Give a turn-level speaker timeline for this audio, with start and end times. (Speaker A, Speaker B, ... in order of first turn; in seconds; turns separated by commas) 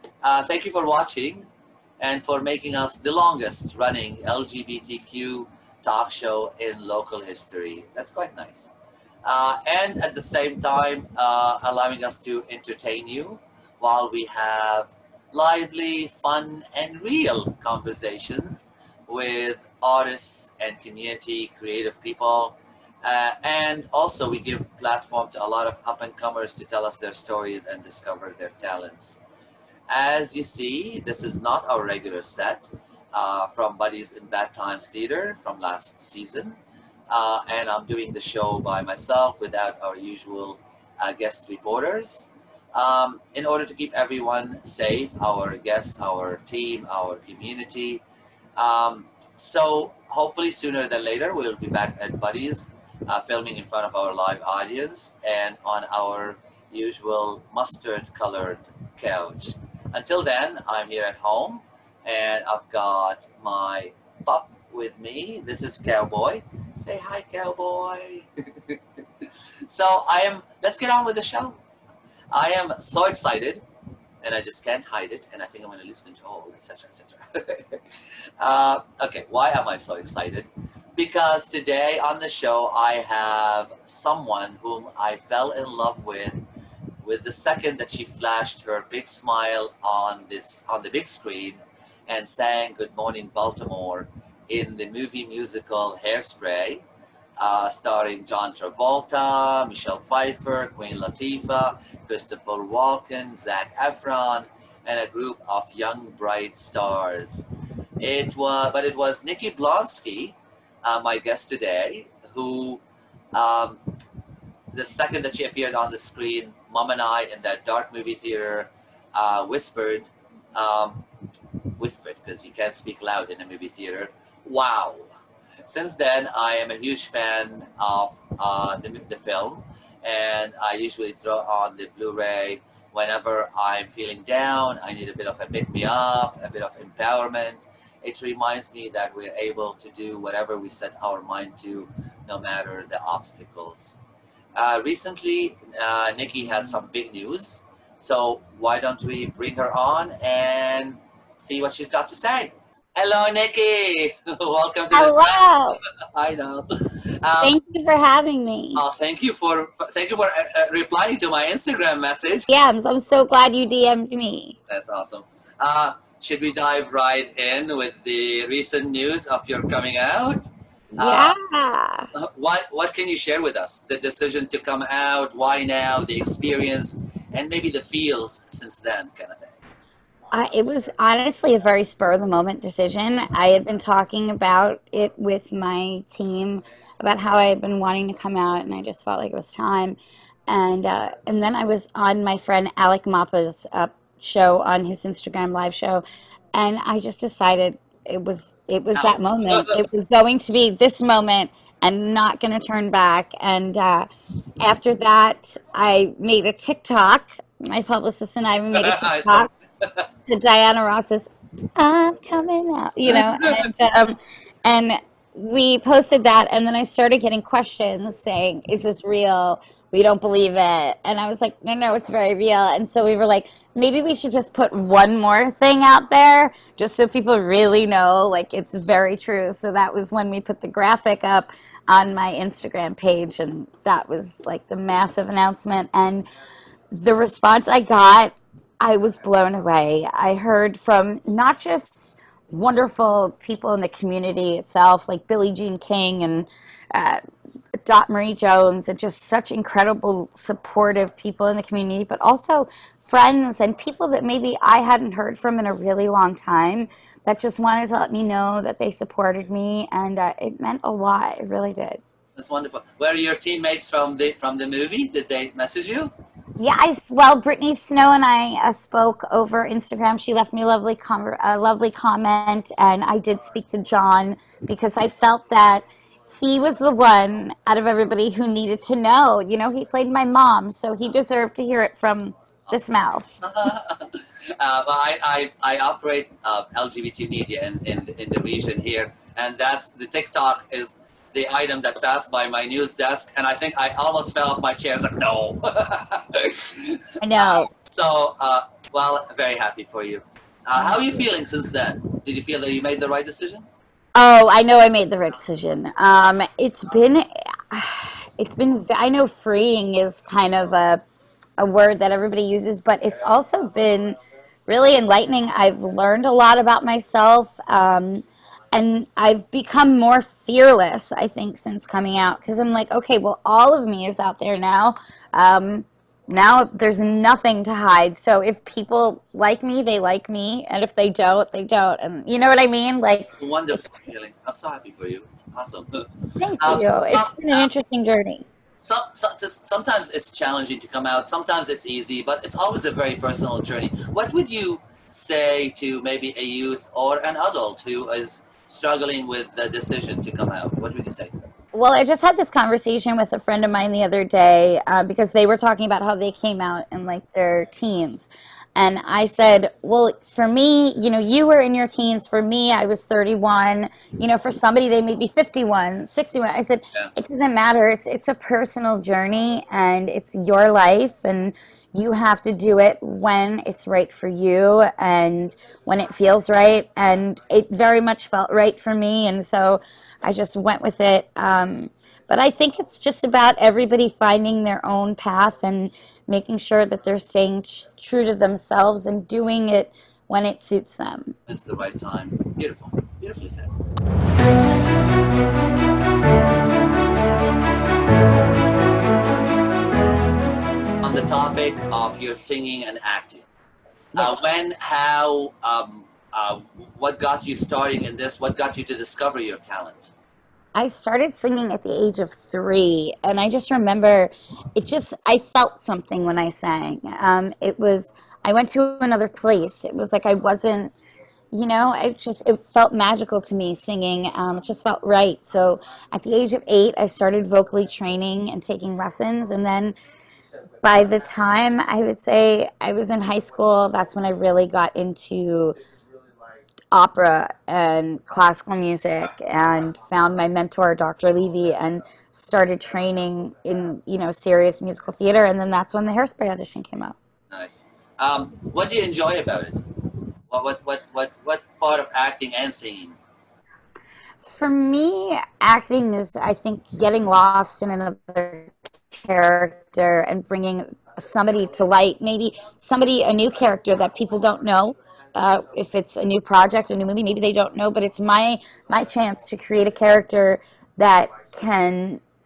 Speaker A: 0.2-1.5, Speaker A: 2.0-8.7, Speaker A: 9.2-29.2, Speaker A: 29.9-36.6, Speaker A: 37.1-48.0, Speaker A: 48.5-71.6, Speaker A: 72.3-73.6, Speaker A: 74.2-77.8, Speaker A: 78.4-86.4, Speaker A: 87.0-96.8, Speaker A: 97.4-107.5, Speaker A: 108.0-113.9, Speaker A: 114.7-121.0, Speaker A: 121.8-125.1, Speaker A: 125.6-144.0, Speaker A: 144.5-157.5, Speaker B: 154.9-155.8, Speaker B: 157.4-158.8, Speaker A: 158.8-162.5, Speaker B: 162.5-164.6, Speaker A: 164.7-171.3, Speaker B: 170.9-172.1, Speaker A: 172.1-179.6, Speaker B: 180.3-190.0, Speaker B: 190.5-204.1, Speaker A: 198.9-199.8, Speaker B: 204.6-209.5, Speaker A: 208.7-210.1, Speaker B: 210.3-236.3, Speaker A: 213.1-213.7, Speaker B: 236.9-247.2, Speaker B: 247.8-262.0, Speaker A: 262.3-266.1, Speaker B: 266.6-283.3, Speaker A: 283.4-303.7, Speaker B: 297.2-297.7, Speaker B: 304.1-311.0, Speaker B: 311.6-333.8, Speaker A: 333.4-336.1, Speaker B: 336.4-338.4, Speaker A: 336.6-337.7, Speaker A: 338.8-351.5, Speaker B: 351.7-391.4, Speaker A: 391.5-393.7, Speaker A: 401.0-403.4, Speaker B: 404.1-404.4, Speaker A: 404.1-410.1, Speaker B: 410.7-420.9, Speaker B: 421.5-429.9, Speaker B: 430.8-435.8, Speaker B: 436.9-447.1, Speaker A: 447.5-449.9, Speaker A: 450.5-453.2, Speaker B: 454.4-472.2